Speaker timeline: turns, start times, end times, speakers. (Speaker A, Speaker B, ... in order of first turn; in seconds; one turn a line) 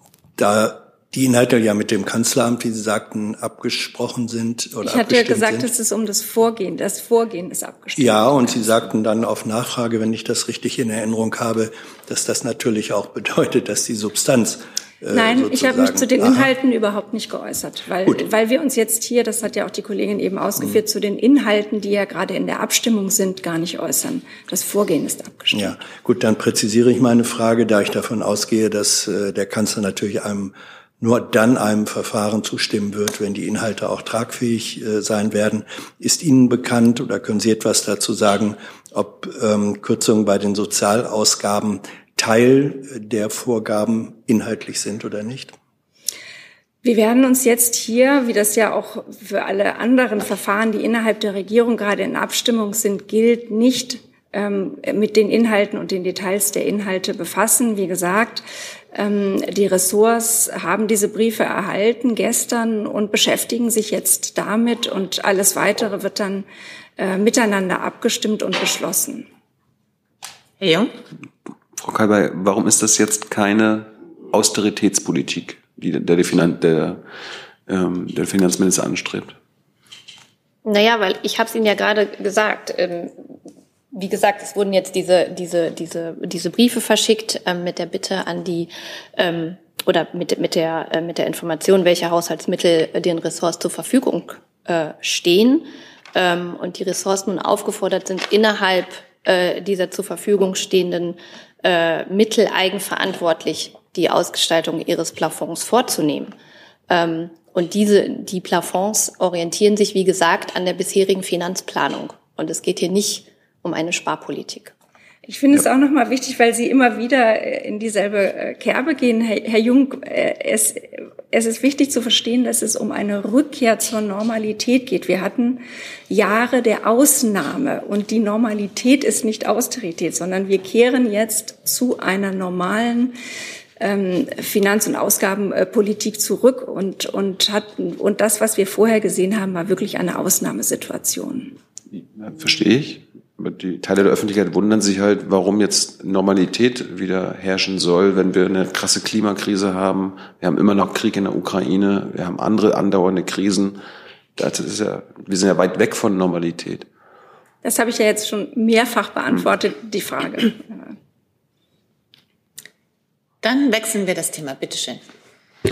Speaker A: 0.4-5.7
Speaker B: 4.8-8.9
Speaker A: 8.0-16.5
Speaker B: 15.1-25.8
Speaker A: 25.5-45.5
Speaker B: 46.8-66.5
Speaker B: 67.0-69.3
Speaker C: 70.6-70.9
Speaker D: 71.7-77.0
Speaker D: 77.7-79.3
Speaker E: 80.6-83.1
Speaker E: 83.9-106.3
Speaker E: 106.9-114.7
Speaker B: 115.2-133.1
Speaker B: 133.8-141.5
Speaker D: 141.9-153.8
Speaker D: 154.3-156.9
Speaker B: 157.6-160.9
Speaker C: 163.4-165.0